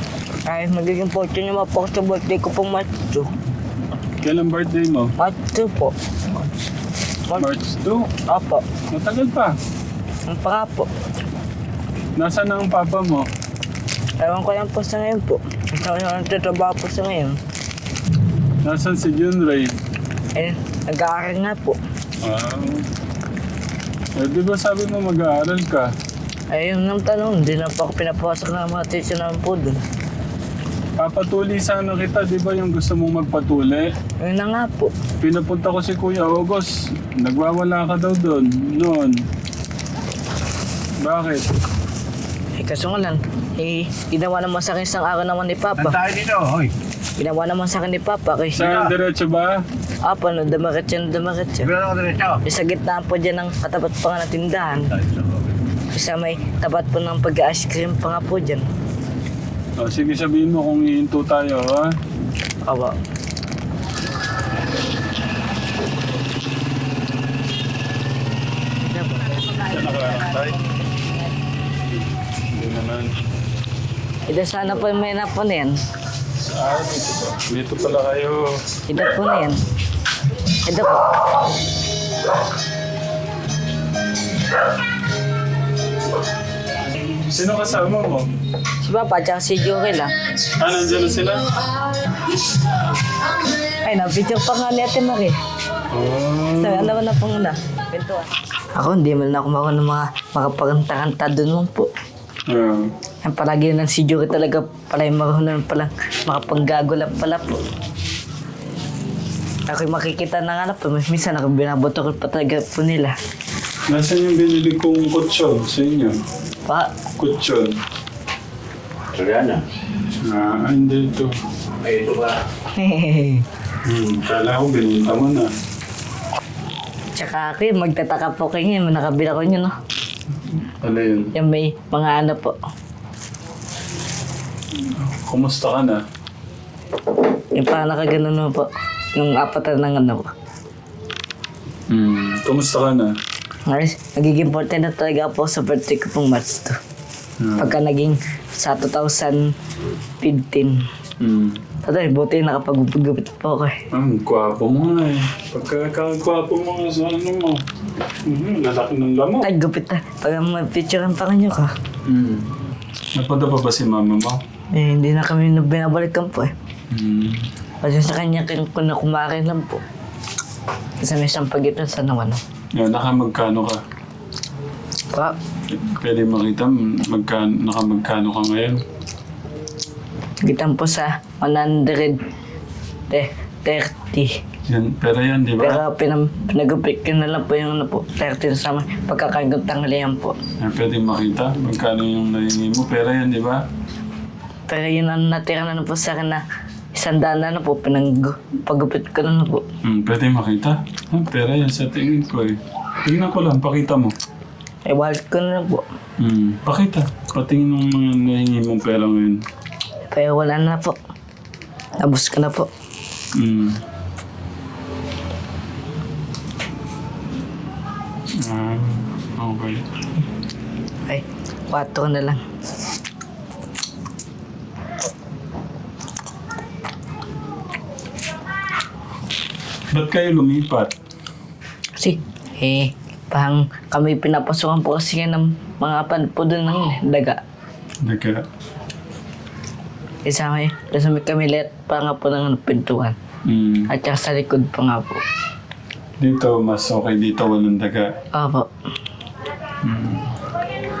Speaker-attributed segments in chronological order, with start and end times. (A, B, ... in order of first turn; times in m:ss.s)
0:00.5-0:03.3 A
0:04.2-0:05.1 B
0:05.2-0:05.9 A
0:07.3-0:08.1 B
0:08.3-0:08.6 A
0:08.9-0:09.6 B
0:10.3-0:10.9 A
0:12.2-0:13.3 B
0:14.2-0:17.4 A
0:18.6-0:19.7 B
0:20.3-0:21.8 A
0:22.2-0:22.8 B
0:24.2-0:25.9 B
0:26.5-0:29.8 A
0:31.0-0:33.9 B
0:34.2-0:34.9 A
0:35.2-0:39.2 B
0:41.0-0:41.5 B
0:42.6-0:46.0 A
0:45.8-0:46.7 C
0:47.2-0:48.6 A
0:48.5-0:49.6 B
0:48.6-0:48.9 C
0:50.0-0:51.7 A
0:51.6-0:52.4 C
0:52.4-0:54.9 A
0:55.9-0:58.7 A
0:59.8-1:01.9 B
1:02.6-1:03.0 A
1:08.8-1:11.1 A
1:09.6-1:10.6 B
1:11.9-1:13.1 B
1:14.3-1:15.8 A
1:16.4-1:18.4 B
1:18.9-1:19.6 A
1:20.6-1:21.2 A
1:27.1-1:28.2 B
1:28.8-1:30.1 A
1:30.5-1:31.4 B
1:33.7-1:35.4 A
1:35.9-1:37.0 B
1:36.6-1:41.9 A
1:42.5-1:42.9 B
1:43.2-1:47.6 A
1:49.7-1:53.1 A
1:53.9-1:56.2 B
1:56.6-1:56.9 A
1:57.2-1:57.7 B
1:59.1-1:59.6 C
2:00.2-2:01.3 B
2:01.8-2:02.4 C
2:02.8-2:03.4 A
2:03.8-2:05.5 B
2:07.2-2:09.7 A
2:10.4-2:11.3 B
2:11.3-2:12.6 A
2:14.8-2:16.0 B
2:17.5-2:20.3 A
2:21.9-2:23.1 B
2:23.7-2:26.8 A
2:27.4-2:27.7 B
2:27.6-2:29.4 A
2:30.2-2:30.8 A
2:31.2-2:31.6 B
2:31.8-2:33.7 A
2:33.9-2:37.6 B
2:38.2-2:39.5 B
2:39.4-2:41.7 A
2:42.0-2:42.5 B
2:43.1-2:44.4 B
2:44.7-2:46.5 A
2:46.9-2:47.5 B
2:47.8-2:49.8 A
2:51.0-2:52.4 A
2:52.8-2:53.8 B
2:55.7-2:58.8 B
3:00.4-3:02.2 A
3:03.1-3:04.3 A
3:04.7-3:05.8 B
3:05.6-3:10.4 A
3:10.6-3:13.6 B
3:14.7-3:16.4 A
3:16.9-3:19.6 A
3:19.8-3:24.1 B
3:24.8-3:25.8 A
3:26.2-3:29.4 B
3:30.1-3:31.0 A
3:32.0-3:32.7 A
3:33.3-3:33.8 B
3:38.4-3:39.8 B
3:41.1-3:42.4 A
3:49.9-3:50.9 B
3:52.0-3:57.4 A
3:58.0-3:58.4 B
4:00.2-4:03.2 A
4:03.4-4:03.9 B
4:03.9-4:05.2 A
4:06.2-4:08.1 B
4:08.3-4:08.7 A
4:09.8-4:10.3 B